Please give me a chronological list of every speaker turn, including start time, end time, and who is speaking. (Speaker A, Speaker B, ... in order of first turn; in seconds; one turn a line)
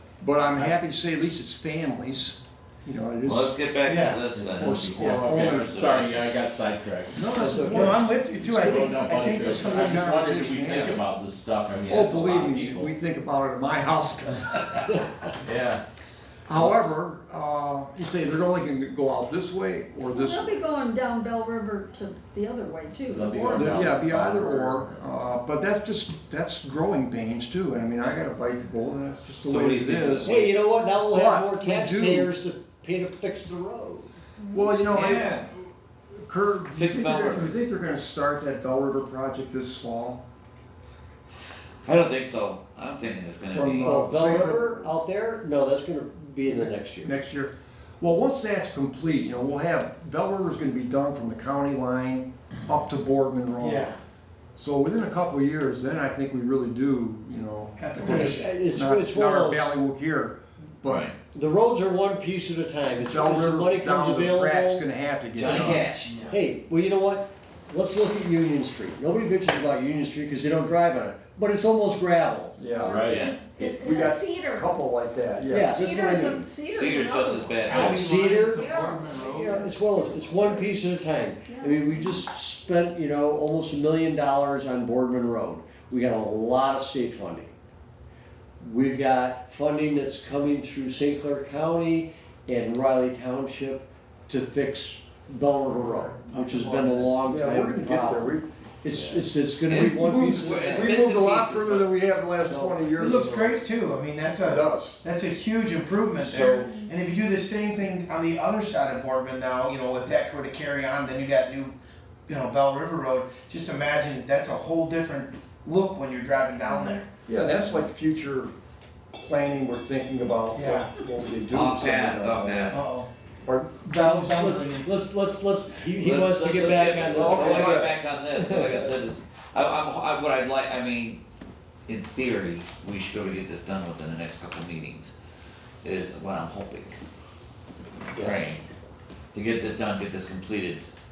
Speaker A: 0.2-3.6
Speaker B: 3.2-6.2
Speaker C: 3.8-4.2
Speaker D: 4.3-7.2
Speaker A: 4.6-5.8
Speaker A: 7.1-11.0
Speaker E: 7.3-8.0
Speaker C: 7.4-10.1
Speaker D: 8.5-12.9
Speaker A: 11.9-14.9
Speaker D: 15.4-15.8
Speaker A: 16.5-20.6
Speaker D: 16.5-16.9
Speaker F: 20.1-23.9
Speaker D: 23.1-25.0
Speaker A: 23.5-30.5
Speaker B: 29.4-30.4
Speaker E: 30.2-34.1
Speaker A: 31.1-32.3
Speaker F: 34.4-34.8
Speaker A: 34.5-35.4
Speaker B: 34.9-35.5
Speaker A: 36.2-40.2
Speaker B: 36.7-37.5
Speaker B: 41.8-43.9
Speaker A: 43.5-44.9
Speaker E: 43.8-47.1
Speaker A: 46.5-53.9
Speaker C: 53.6-54.0
Speaker A: 54.5-61.1
Speaker C: 57.8-58.6
Speaker E: 58.0-59.8
Speaker B: 60.8-61.1
Speaker E: 61.3-64.8
Speaker A: 63.0-65.9
Speaker B: 65.4-66.2
Speaker E: 65.4-72.6
Speaker A: 72.6-75.9
Speaker F: 72.7-74.7
Speaker D: 72.8-73.4
Speaker E: 75.5-76.4
Speaker F: 75.6-79.7
Speaker B: 76.7-78.2
Speaker D: 77.7-79.7
Speaker E: 77.7-78.7
Speaker A: 79.1-80.7
Speaker E: 79.3-87.5
Speaker F: 81.5-81.8
Speaker E: 88.6-98.3
Speaker C: 95.8-97.1
Speaker A: 97.3-98.5
Speaker E: 98.8-101.0
Speaker B: 99.7-101.9
Speaker A: 99.7-103.6
Speaker E: 102.4-102.8
Speaker C: 103.0-111.7
Speaker A: 104.4-105.0
Speaker B: 106.3-106.7
Speaker C: 112.3-117.0
Speaker F: 116.6-117.0
Speaker A: 117.3-118.5
Speaker A: 119.2-122.8
Speaker C: 120.5-120.9
Speaker B: 121.5-122.8
Speaker C: 122.7-123.1
Speaker A: 123.5-123.8
Speaker E: 123.8-128.9
Speaker C: 123.9-124.9
Speaker B: 125.9-131.2
Speaker A: 127.1-127.9
Speaker B: 131.8-135.1
Speaker B: 135.8-136.9
Speaker E: 138.1-138.4
Speaker B: 138.2-138.6
Speaker B: 139.3-140.9